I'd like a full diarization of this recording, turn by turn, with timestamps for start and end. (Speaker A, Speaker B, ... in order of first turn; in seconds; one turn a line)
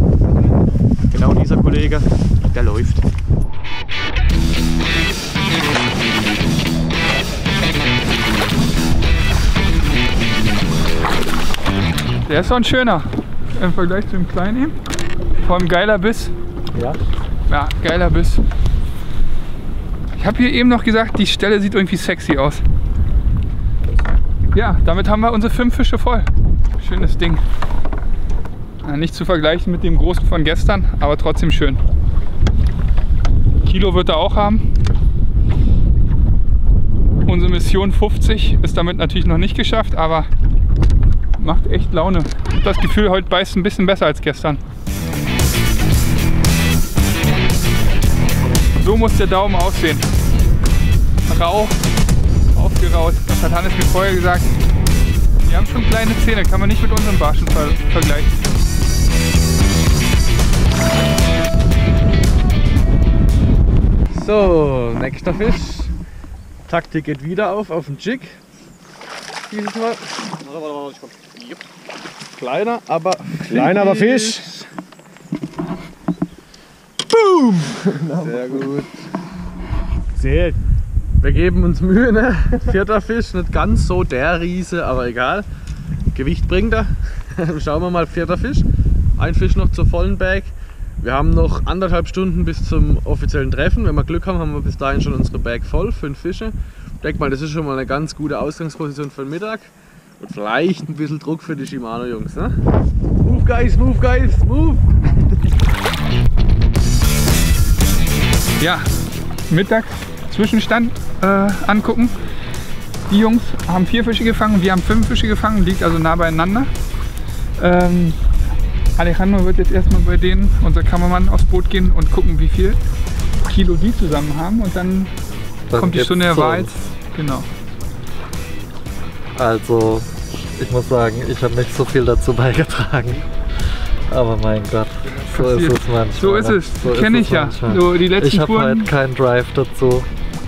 Speaker A: 1.1-3.0
Speaker B: 12.2-14.8
Speaker B: 15.4-16.3
Speaker B: 17.5-18.4
Speaker B: 20.1-22.6
Speaker B: 24.5-27.4
Speaker B: 28.8-31.8
Speaker B: 33.6-34.6
Speaker B: 37.2-40.3
Speaker B: 41.4-44.6
Speaker B: 48.7-50.1
Speaker B: 51.3-51.8
Speaker B: 52.5-54.5
Speaker B: 55.4-58.5
Speaker C: 64.1-65.9
Speaker C: 66.7-68.4
Speaker C: 69.5-70.3
Speaker C: 72.4-74.6
Speaker C: 77.2-79.1
Speaker C: 81.2-85.5
Speaker C: 86.1-88.7
Speaker C: 89.2-102.5
Speaker C: 103.2-104.8
Speaker B: 108.6-108.9
Speaker B: 109.5-112.1
Speaker B: 113.1-116.7
Speaker B: 117.6-118.2
Speaker B: 119.0-122.8
Speaker B: 123.4-125.1
Speaker D: 125.7-126.8
Speaker B: 125.7-127.5
Speaker D: 129.3-133.2
Speaker D: 134.1-140.1
Speaker B: 135.2-138.9